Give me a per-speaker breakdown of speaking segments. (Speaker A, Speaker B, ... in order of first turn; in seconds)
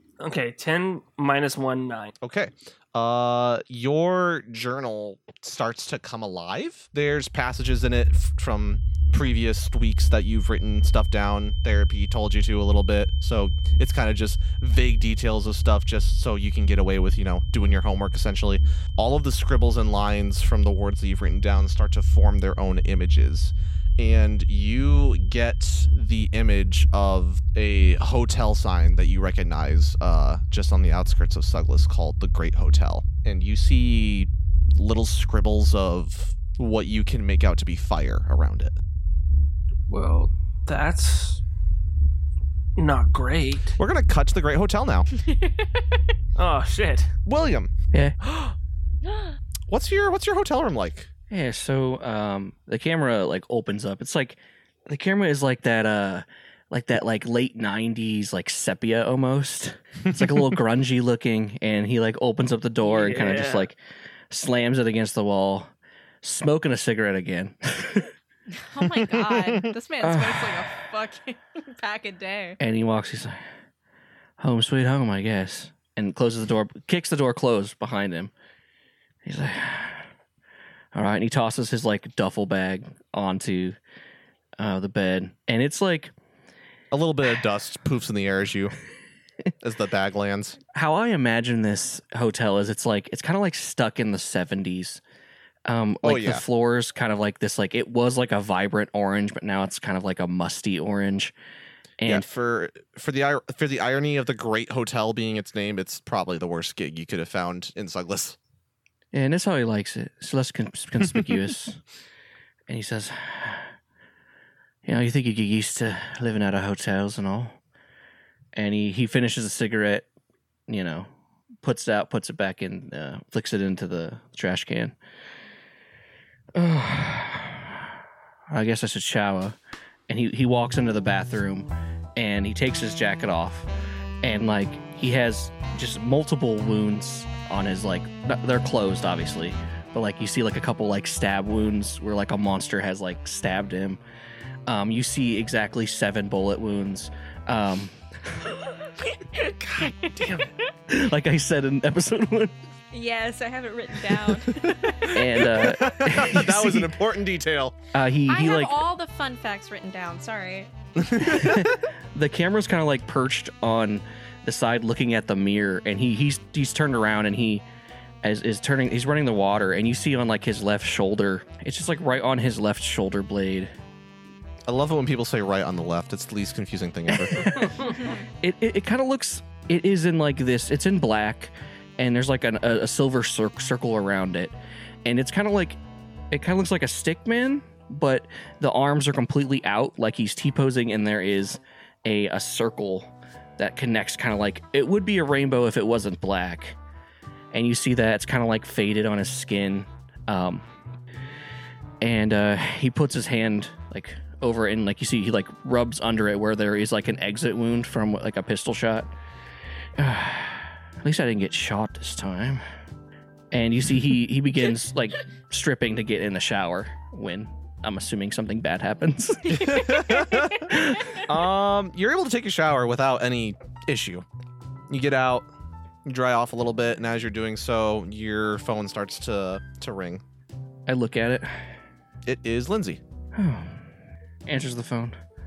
Speaker A: 0.2-2.1, 39.9-41.4, 42.8-43.8, 46.4-47.1, 62.9-63.7
Speaker B: 2.2-38.8, 43.8-45.1, 47.3-47.7, 49.7-51.1, 86.9-88.8, 89.6-90.6, 96.0-96.4, 102.1-108.4, 155.0-157.8, 161.0-161.8, 174.7-177.7, 219.7-220.6, 221.3-224.2, 224.9-225.5, 226.1-230.2, 232.3-233.0
Speaker C: 45.2-45.8, 68.5-72.6, 149.0-150.5, 152.9-155.8, 158.3-160.7, 177.9-178.2
Speaker D: 51.3-63.8, 64.3-65.7, 66.2-68.1, 70.0-70.7, 72.6-73.4, 74.4-78.3, 79.2-80.0, 80.9-83.8, 84.6-86.1, 90.7-95.0, 95.7-101.3, 102.0-102.3, 109.1-111.8, 112.7-113.7, 114.8-117.6, 118.5-120.1, 120.7-121.1, 121.6-125.0, 126.5-127.9, 128.5-129.6, 130.1-133.7, 134.2-144.0, 144.7-148.6, 150.9-152.6, 155.1-157.0, 157.9-158.8, 161.1-167.6, 168.2-173.7, 177.1-184.6, 185.1-185.8, 186.3-196.8, 197.5-200.6, 202.0-209.1, 210.0-212.6, 213.5-221.2, 230.9-231.7, 233.3-233.8, 234.5-235.2